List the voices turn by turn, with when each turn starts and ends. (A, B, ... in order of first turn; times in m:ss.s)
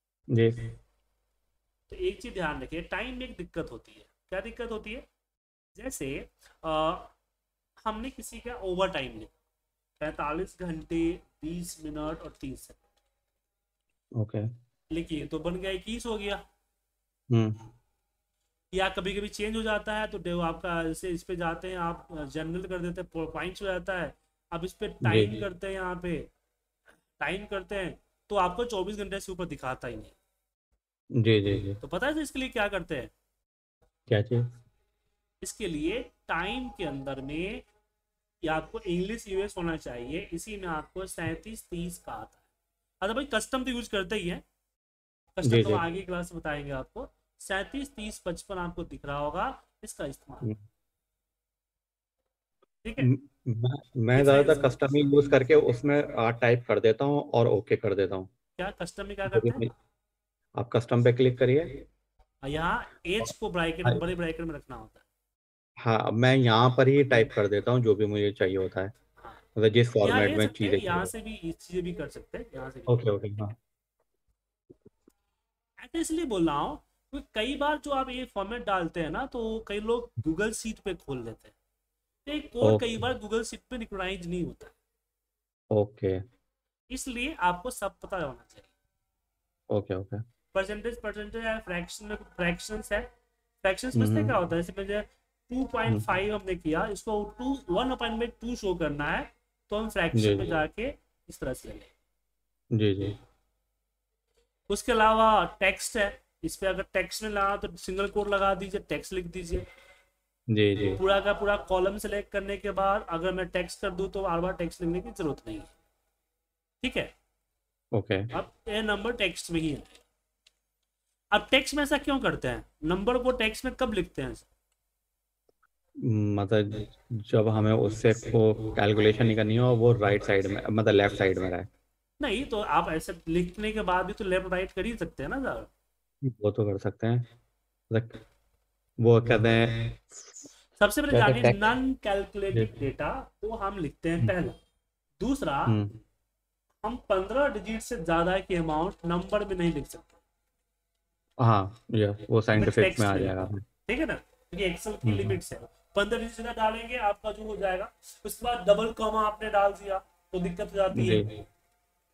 0:00.3-0:00.6 A
0:01.9-0:05.0 B
0:05.8-0:07.1 B
0:07.9-0:09.3 B
0:10.0-0:12.9 B
0:14.2-0:14.5 A
0:14.9-0:16.4 B
0:17.3-0:17.6 A
0:18.7-0:26.3 B
0:25.0-0:25.4 A
0:27.2-0:30.2 B
0:31.2-0:31.8 A
0:31.8-0:33.1 B
0:34.1-0:34.4 A
0:35.4-0:37.6 B
0:38.4-0:42.4 B
0:43.0-0:44.4 B
0:45.4-0:50.5 B
0:45.4-0:45.8 A
0:52.8-0:53.1 B
0:53.0-0:58.3 A
0:54.2-0:55.3 B
0:58.6-0:59.7 B
0:59.3-0:59.7 A
1:00.6-1:01.8 A
1:02.4-1:05.0 B
1:05.8-1:09.0 A
1:09.6-1:11.1 A
1:10.0-1:13.0 B
1:12.9-1:13.6 A
1:15.8-1:21.6 B
1:22.2-1:24.7 B
1:22.6-1:23.0 A
1:25.7-1:26.2 A
1:26.9-1:28.7 B
1:29.7-1:30.2 A
1:30.5-1:33.1 B
1:33.6-1:41.9 B
1:34.0-1:34.4 A
1:40.2-1:40.6 A
1:42.7-1:43.2 A
1:44.7-1:49.6 B
1:50.5-1:51.0 A
1:51.0-1:55.7 B
1:56.8-1:57.1 B
1:57.9-1:58.3 A
1:58.3-2:00.0 B
2:01.3-2:04.5 B
2:06.0-2:11.7 A
2:12.2-2:15.7 B
2:16.2-2:17.3 A
2:17.9-2:18.2 A
2:19.0-2:20.4 A
2:20.8-2:24.6 B
2:21.1-2:21.7 A
2:25.2-2:25.8 B
2:25.7-2:26.0 A
2:26.8-2:30.2 B
2:31.4-2:33.6 A
2:32.6-2:41.3 B
2:35.0-2:35.4 A
2:40.9-2:41.3 A